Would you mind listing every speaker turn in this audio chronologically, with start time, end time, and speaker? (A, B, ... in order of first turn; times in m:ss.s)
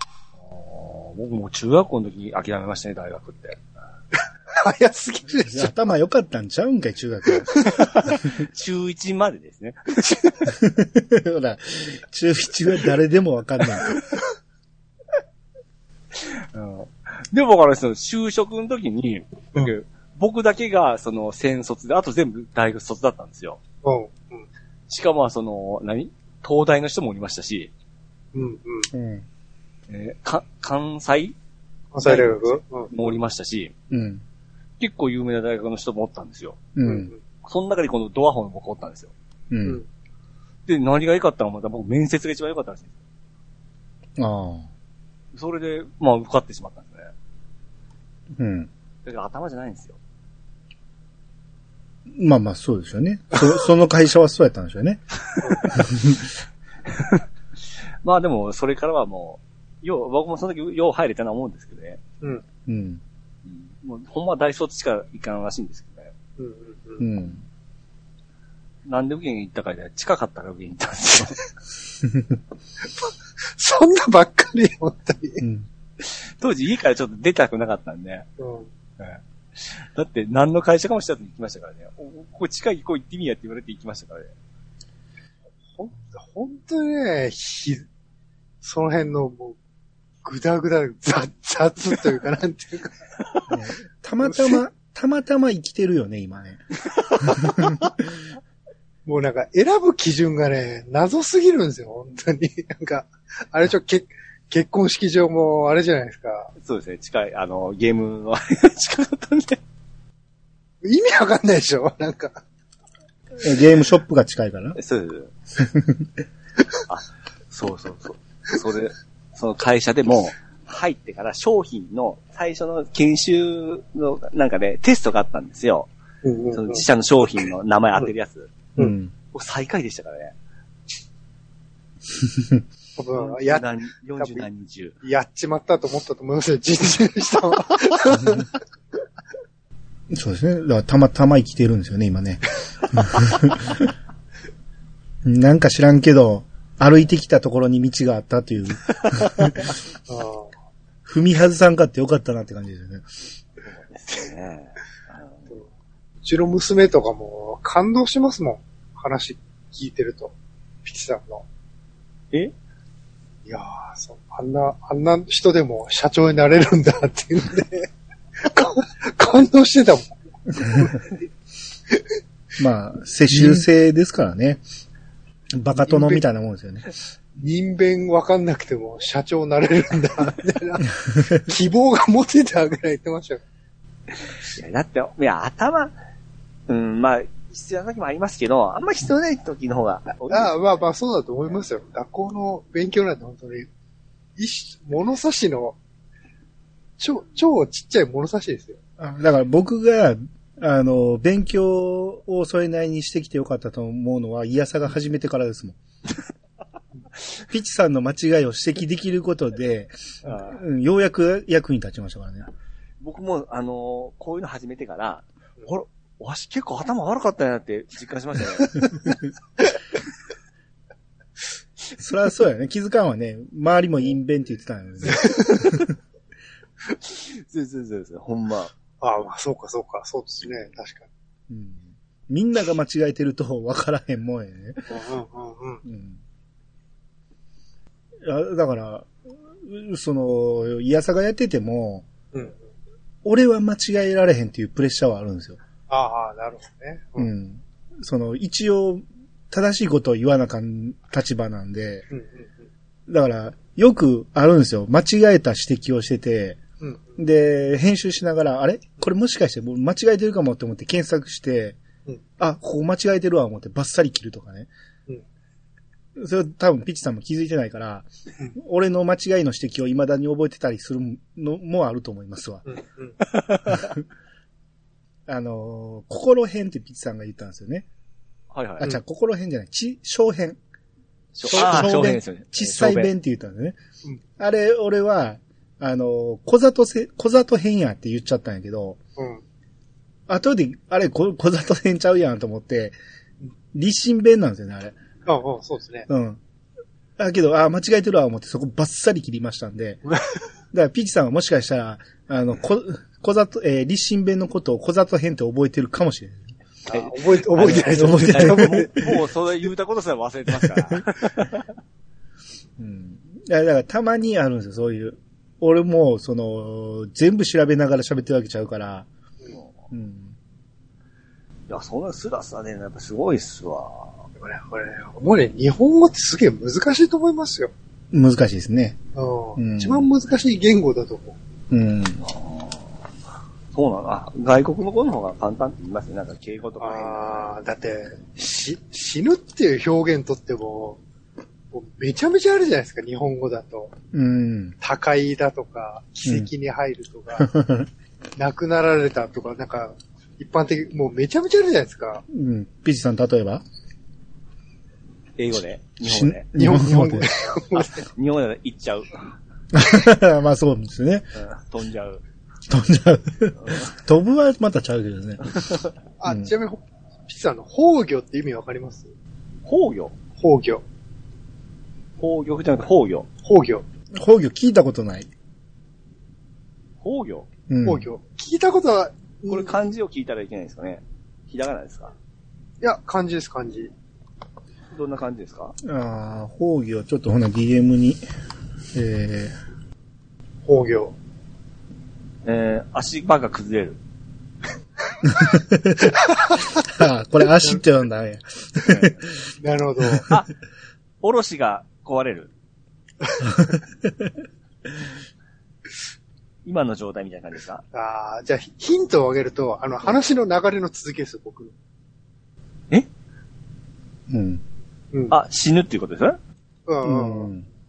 0:00.4-0:03.6 A
0:04.6-0:05.7 B
0:05.5-0:07.5 C
0:07.8-0:10.2 A
0:10.5-0:13.9 C
0:16.5-0:23.6 A
0:23.8-0:24.4 B
0:24.9-0:27.7 A
0:28.3-0:28.9 B
0:28.9-0:29.2 C
0:29.9-0:31.4 A
0:31.9-0:32.9 B
0:32.0-0:33.7 A
0:33.9-0:34.2 C
0:34.8-0:36.7 A
0:36.8-0:37.1 C
0:36.8-0:37.2 B
0:37.4-0:39.1 A
0:39.5-0:39.8 C
0:40.6-0:43.0 A
0:44.2-0:44.7 C
0:45.3-0:47.1 A
0:48.4-0:48.7 C
0:49.0-0:50.0 A
0:52.1-0:55.0 C
0:58.0-1:02.0 A
1:02.7-1:03.0 C
1:03.4-1:06.1 A
1:06.4-1:07.0 B
1:07.0-1:07.4 C
1:08.8-1:11.4 A
1:13.0-1:15.4 B
1:15.4-1:15.7 C
1:16.0-1:18.2 A
1:18.4-1:18.7 B
1:19.0-1:24.3 A
1:25.7-1:27.8 B
1:28.6-1:29.6 B
1:30.2-1:32.9 B
1:33.5-1:36.6 C
1:37.4-1:37.7 C
1:39.0-1:46.5 B
1:46.6-1:49.6 A
1:50.8-1:52.4 B
1:53.4-1:54.8 C
1:54.7-1:55.3 A
1:56.9-2:05.9 A
2:06.2-2:06.8 B
2:06.5-2:08.6 A
2:08.8-2:09.1 C
2:09.2-2:10.3 A
2:12.2-2:12.6 C
2:13.0-2:14.5 B
2:13.1-2:15.0 A
2:15.0-2:18.4 B
2:20.1-2:23.8 C
2:25.2-2:29.6 C
2:30.1-2:30.5 B
2:31.0-2:33.1 C
2:33.7-2:35.5 A
2:36.2-2:41.4 B
2:43.4-2:47.9 B
2:48.4-2:50.9 B
2:52.6-2:54.6 C
2:55.5-2:56.8 C
2:55.8-2:56.2 B
2:57.4-3:00.9 B
3:01.4-3:03.4 B
3:04.6-3:06.0 A
3:06.7-3:10.8 A
3:10.3-3:13.7 B
3:14.4-3:15.8 B
3:17.0-3:18.8 B
3:19.0-3:25.8 C
3:27.5-3:32.5 C
3:30.2-3:30.6 A
3:33.0-3:38.8 A
3:42.0-3:45.8 C
3:47.1-3:48.7 A
3:49.0-3:51.1 B
3:51.5-3:54.9 C
3:54.9-3:55.8 B
3:55.8-3:56.2 C
3:58.2-3:59.1 C
3:59.6-4:02.0 C
4:03.2-4:05.6 C
4:05.9-4:07.3 B
4:07.2-4:12.0 C
4:12.1-4:12.5 B
4:13.1-4:16.6 C
4:16.8-4:17.1 B
4:17.2-4:21.8 C
4:22.4-4:24.7 C
4:26.2-4:32.6 C
4:32.7-4:33.1 B
4:35.3-4:37.8 C
4:38.5-4:38.9 A
4:38.8-4:40.6 C
4:41.4-4:43.1 A
4:41.4-4:43.8 C
4:41.5-4:41.9 B
4:44.4-4:49.0 C
4:49.2-4:49.4 B
4:50.3-4:53.0 C
4:53.7-4:55.0 C
4:55.2-4:56.0 B
4:56.1-4:56.4 C
4:57.2-5:00.0 C
5:00.7-5:06.5 C
5:06.9-5:09.1 B
5:06.9-5:11.6 A
5:08.0-5:08.9 C
5:12.8-5:19.1 C
5:19.9-5:20.4 C
5:21.7-5:24.2 A
5:24.4-5:27.7 B
5:28.1-5:29.0 C
5:29.1-5:31.4 B
5:29.6-5:30.1 C
5:31.7-5:32.2 C
5:32.2-5:32.8 A
5:33.7-5:37.5 A
5:36.8-5:41.0 B
5:41.7-5:43.9 B
5:44.1-5:44.8 C
5:44.8-5:47.5 B
5:46.2-5:46.5 C
5:47.4-5:47.9 C
5:48.4-5:52.2 B
5:52.3-5:53.6 C
5:55.4-5:56.5 A
5:56.0-5:57.3 C
5:56.5-5:57.9 B
5:57.7-5:59.1 A
5:59.7-6:01.3 C
6:01.4-6:02.2 A
6:02.7-6:05.6 C
6:03.6-6:03.9 A
6:06.2-6:09.1 B
6:06.2-6:06.5 C
6:09.6-6:10.2 A
6:10.4-6:10.8 B
6:12.2-6:13.3 A
6:13.4-6:13.8 B
6:14.2-6:15.3 C
6:17.0-6:17.5 A
6:17.7-6:18.1 C
6:17.8-6:19.7 B
6:19.5-6:22.1 A
6:22.8-6:23.9 B
6:24.9-6:25.8 A
6:25.8-6:28.2 C
6:28.9-6:29.5 C
6:30.6-6:31.1 B
6:32.4-6:34.0 A
6:35.3-6:36.2 C
6:36.8-6:39.2 C
6:38.8-6:39.1 A
6:39.6-6:40.2 B
6:41.2-6:42.5 A
6:46.6-6:47.8 A
6:47.9-6:51.7 B
6:54.3-6:54.6 C
6:55.3-6:56.4 A
6:56.9-6:57.5 B
6:57.0-6:57.7 C